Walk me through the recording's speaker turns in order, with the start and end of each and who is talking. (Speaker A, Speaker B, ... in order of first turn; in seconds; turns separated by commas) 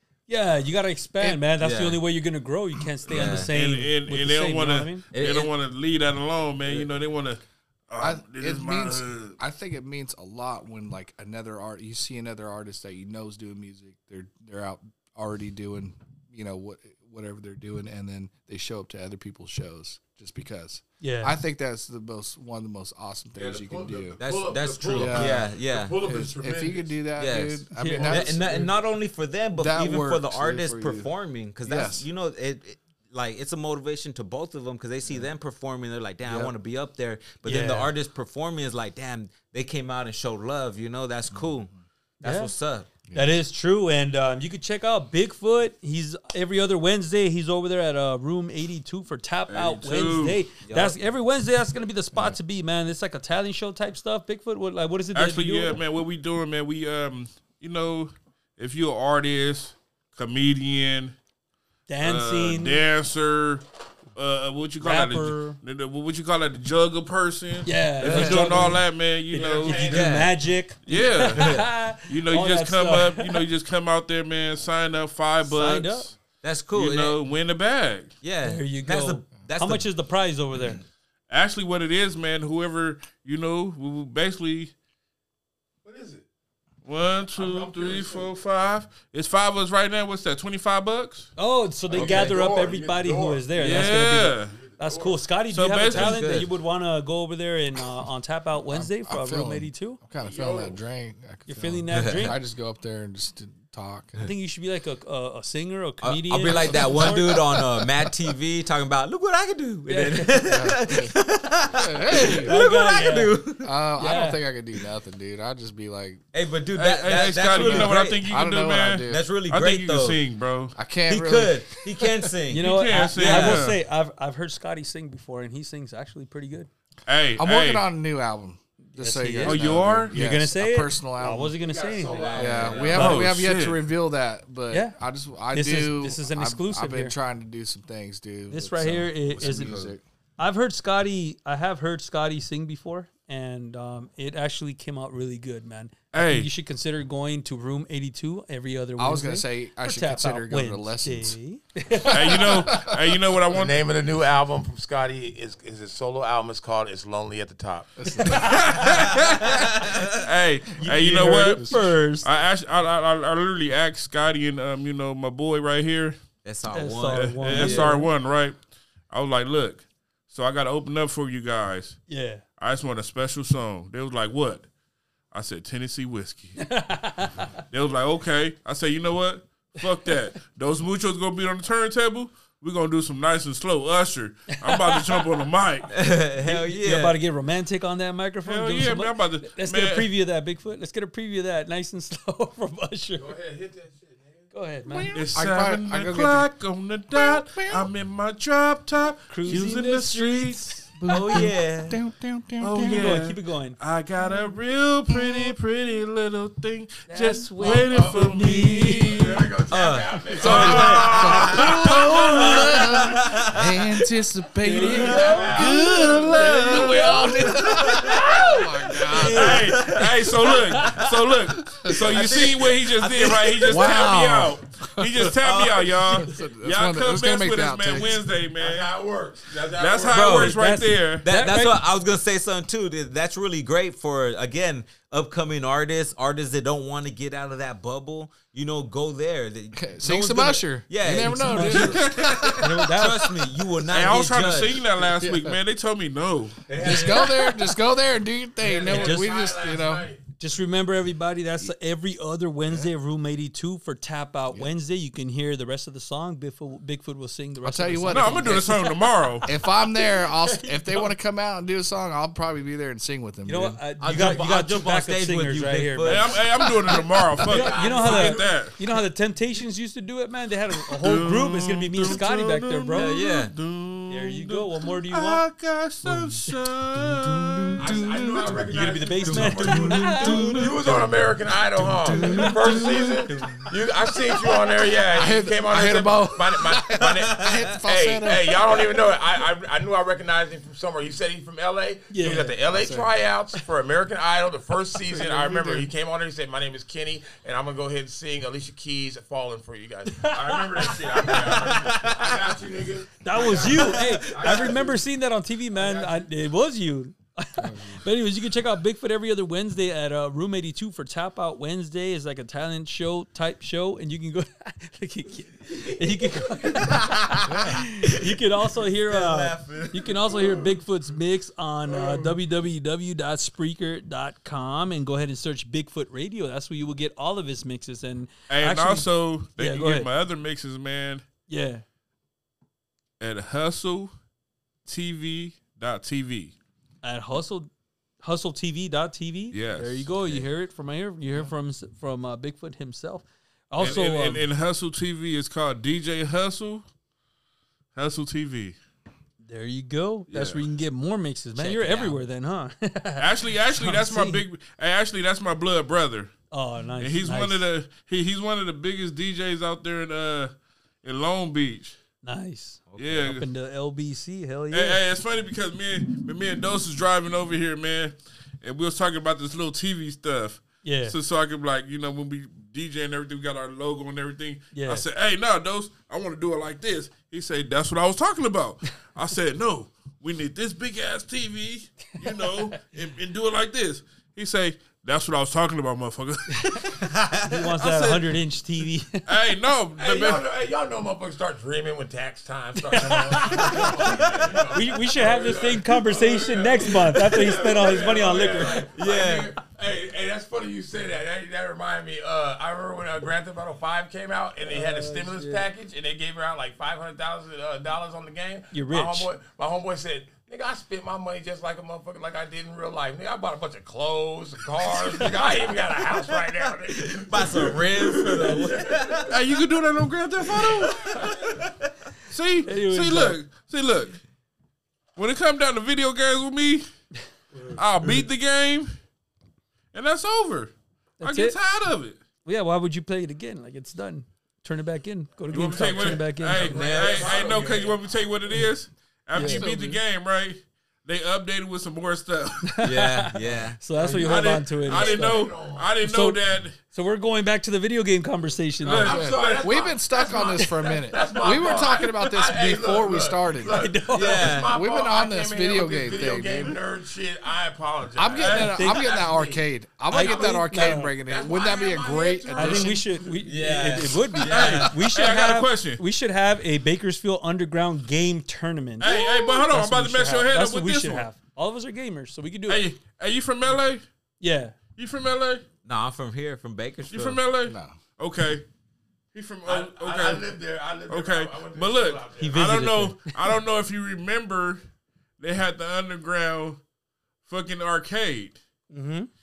Speaker A: 0.3-5.0, Speaker B: 1.6-2.0, Speaker B: 3.1-3.5, Speaker C: 3.2-9.4, Speaker B: 5.1-5.5, Speaker D: 8.0-24.2, Speaker A: 21.0-21.4, Speaker E: 23.4-27.0, Speaker B: 24.2-26.0, Speaker D: 24.9-28.7, Speaker B: 27.2-42.9, Speaker A: 27.8-28.2, Speaker E: 28.0-28.6, Speaker D: 29.5-31.1, Speaker D: 31.6-32.0, Speaker D: 36.2-36.5, Speaker A: 37.4-37.9, Speaker D: 41.3-41.7, Speaker A: 42.2-42.5, Speaker D: 43.1-43.4, Speaker A: 43.1-55.8, Speaker C: 49.5-50.4, Speaker B: 50.6-50.9, Speaker C: 55.1-61.1, Speaker A: 61.9-62.8, Speaker C: 62.0-63.6, Speaker C: 64.2-70.0, Speaker A: 64.8-65.6, Speaker A: 67.6-73.5, Speaker B: 68.1-68.4, Speaker D: 68.1-68.5, Speaker E: 69.3-70.1, Speaker B: 69.8-70.3, Speaker C: 70.8-76.1, Speaker B: 71.4-71.6, Speaker A: 75.4-76.1, Speaker B: 76.4-77.2, Speaker C: 76.7-78.1, Speaker B: 78.2-79.8, Speaker A: 78.4-80.8, Speaker C: 81.3-84.7, Speaker E: 85.8-86.2, Speaker C: 86.8-91.3, Speaker E: 87.3-88.3, Speaker A: 91.4-100.0, Speaker E: 91.9-94.0, Speaker C: 93.5-94.6, Speaker E: 94.5-95.2, Speaker C: 95.5-96.2, Speaker B: 95.9-96.5, Speaker D: 98.7-104.3, Speaker E: 100.2-100.8, Speaker A: 101.5-102.4, Speaker B: 101.9-102.3, Speaker A: 104.2-107.4, Speaker B: 106.0-113.7, Speaker A: 109.9-110.4, Speaker D: 110.4-111.2, Speaker D: 111.7-112.5, Speaker A: 112.4-113.4, Speaker D: 113.6-116.2, Speaker A: 114.0-114.4, Speaker B: 116.3-118.2, Speaker C: 116.8-120.7, Speaker D: 117.5-119.2, Speaker B: 119.1-120.2, Speaker D: 120.8-122.2, Speaker B: 121.1-123.7, Speaker A: 122.5-126.7, Speaker C: 122.6-123.8, Speaker C: 127.1-127.8, Speaker D: 127.4-131.6, Speaker A: 128.9-133.3, Speaker C: 129.4-130.1, Speaker E: 131.6-133.2, Speaker B: 132.2-132.9, Speaker D: 132.3-140.0, Speaker C: 132.9-133.8, Speaker A: 134.7-134.9, Speaker A: 135.5-137.2, Speaker A: 138.5-139.8, Speaker B: 139.4-139.9, Speaker A: 140.4-152.6, Speaker C: 146.1-146.5, Speaker D: 149.0-151.4, Speaker C: 152.1-153.8, Speaker D: 152.2-153.0, Speaker E: 153.5-157.9, Speaker D: 158.0-158.8, Speaker C: 158.3-166.2, Speaker B: 159.3-160.0, Speaker A: 160.8-162.3, Speaker D: 161.2-161.7, Speaker B: 166.4-168.0, Speaker A: 166.7-168.1, Speaker C: 167.1-168.6, Speaker C: 169.1-172.0, Speaker A: 172.1-172.4, Speaker C: 172.6-174.7, Speaker C: 175.3-176.6, Speaker A: 176.6-177.5, Speaker C: 177.7-185.9, Speaker A: 184.5-185.3, Speaker B: 185.9-187.2, Speaker A: 186.5-193.3, Speaker C: 188.4-190.1, Speaker E: 193.2-194.5, Speaker A: 194.5-195.2, Speaker D: 194.9-196.5, Speaker C: 195.1-200.7, Speaker D: 197.1-197.9, Speaker A: 199.3-200.9, Speaker D: 200.9-203.1, Speaker B: 201.1-202.0, Speaker C: 202.6-209.5, Speaker A: 202.8-203.8, Speaker D: 205.1-205.5, Speaker A: 207.1-209.2, Speaker E: 207.6-211.7, Speaker B: 209.7-211.4, Speaker C: 210.4-212.6, Speaker A: 210.4-211.1, Speaker D: 210.4-219.8, Speaker B: 213.0-213.5, Speaker A: 214.6-215.8, Speaker E: 214.8-218.6, Speaker C: 215.5-217.3, Speaker B: 217.9-218.2, Speaker B: 219.2-220.9, Speaker C: 219.2-228.9, Speaker D: 221.8-222.3, Speaker B: 221.9-223.6, Speaker E: 223.2-224.0, Speaker D: 223.6-225.3, Speaker B: 225.4-226.2, Speaker D: 226.1-228.2, Speaker E: 228.6-230.5, Speaker C: 229.7-231.2, Speaker B: 230.1-230.6, Speaker A: 230.2-231.8, Speaker B: 231.2-244.8, Speaker D: 239.7-242.5, Speaker A: 241.3-242.0, Speaker C: 241.8-242.6, Speaker A: 242.6-243.3, Speaker C: 243.9-246.6, Speaker D: 245.0-245.6, Speaker E: 246.7-247.6, Speaker D: 246.8-250.1, Speaker E: 248.6-250.2, Speaker A: 248.8-249.3, Speaker A: 250.4-261.1, Speaker D: 257.6-258.9, Speaker C: 258.1-259.4, Speaker D: 259.4-263.8, Speaker A: 263.4-266.3, Speaker B: 264.0-266.4, Speaker C: 266.0-268.7, Speaker E: 267.4-268.6, Speaker A: 267.4-273.1, Speaker C: 271.0-277.8, Speaker B: 272.9-273.5, Speaker A: 274.1-275.4, Speaker D: 277.1-278.6, Speaker E: 277.8-305.0, Speaker A: 278.7-280.4, Speaker B: 279.4-280.7, Speaker D: 279.6-280.7, Speaker D: 281.8-283.2, Speaker B: 283.3-283.7, Speaker D: 285.1-288.7, Speaker B: 287.0-287.7, Speaker A: 292.1-292.6, Speaker D: 292.7-293.1, Speaker D: 295.1-295.9, Speaker A: 300.1-300.9, Speaker B: 301.4-302.4, Speaker A: 303.2-330.1, Speaker E: 305.8-306.2, Speaker D: 307.6-308.0, Speaker B: 316.9-317.5, Speaker D: 317.4-317.8, Speaker B: 319.1-320.2, Speaker C: 328.5-331.2, Speaker A: 331.5-331.8, Speaker C: 333.2-334.1, Speaker C: 334.9-336.6, Speaker A: 337.0-337.7, Speaker A: 338.2-344.4, Speaker C: 339.5-340.1, Speaker C: 343.8-346.8, Speaker C: 347.9-348.8, Speaker A: 349.4-354.4, Speaker C: 350.3-350.6, Speaker B: 351.6-352.2, Speaker C: 353.2-356.3, Speaker A: 356.5-357.7, Speaker C: 357.0-360.5, Speaker C: 361.0-362.0, Speaker A: 362.2-365.0, Speaker B: 362.9-363.2, Speaker C: 363.0-363.4, Speaker C: 364.7-386.9, Speaker A: 370.8-371.1, Speaker A: 374.7-375.0, Speaker A: 382.2-382.8, Speaker A: 386.5-389.2, Speaker C: 387.8-388.2, Speaker C: 389.2-390.4, Speaker E: 390.0-419.3, Speaker A: 392.8-393.9, Speaker A: 394.7-398.9, Speaker B: 398.9-399.5, Speaker A: 404.6-405.6, Speaker A: 408.7-409.3, Speaker B: 416.2-419.3, Speaker C: 419.3-421.1, Speaker B: 420.6-421.7, Speaker E: 421.1-421.5, Speaker C: 422.3-424.1, Speaker A: 422.6-423.4, Speaker C: 425.1-426.9, Speaker C: 427.7-428.9, Speaker C: 429.9-432.2, Speaker A: 431.2-431.6, Speaker A: 432.4-436.8, Speaker C: 435.5-442.6, Speaker E: 435.5-438.0, Speaker B: 436.7-437.5, Speaker A: 439.3-439.7, Speaker D: 439.4-440.0, Speaker A: 442.8-445.4, Speaker B: 442.8-443.8, Speaker C: 444.1-446.8, Speaker E: 444.9-445.9, Speaker A: 446.0-449.2, Speaker C: 448.8-449.5, Speaker E: 448.9-463.4, Speaker D: 448.9-453.8, Speaker A: 453.7-454.5, Speaker B: 454.1-454.7, Speaker D: 454.7-456.8, Speaker D: 458.1-463.0, Speaker C: 458.4-458.8, Speaker A: 458.6-459.1, Speaker A: 460.1-461.1, Speaker A: 462.5-472.8, Speaker B: 463.4-464.9, Speaker C: 464.5-466.0, Speaker C: 469.0-471.3, Speaker C: 472.7-474.0, Speaker A: 474.4-474.8, Speaker C: 474.9-475.6, Speaker B: 475.8-477.4, Speaker C: 477.1-478.6, Speaker D: 477.6-478.0, Speaker C: 479.3-480.5, Speaker E: 479.6-482.8, Speaker C: 481.1-484.8, Speaker A: 482.4-483.4, Speaker C: 485.4-486.8, Speaker C: 487.4-488.6, Speaker A: 488.9-489.3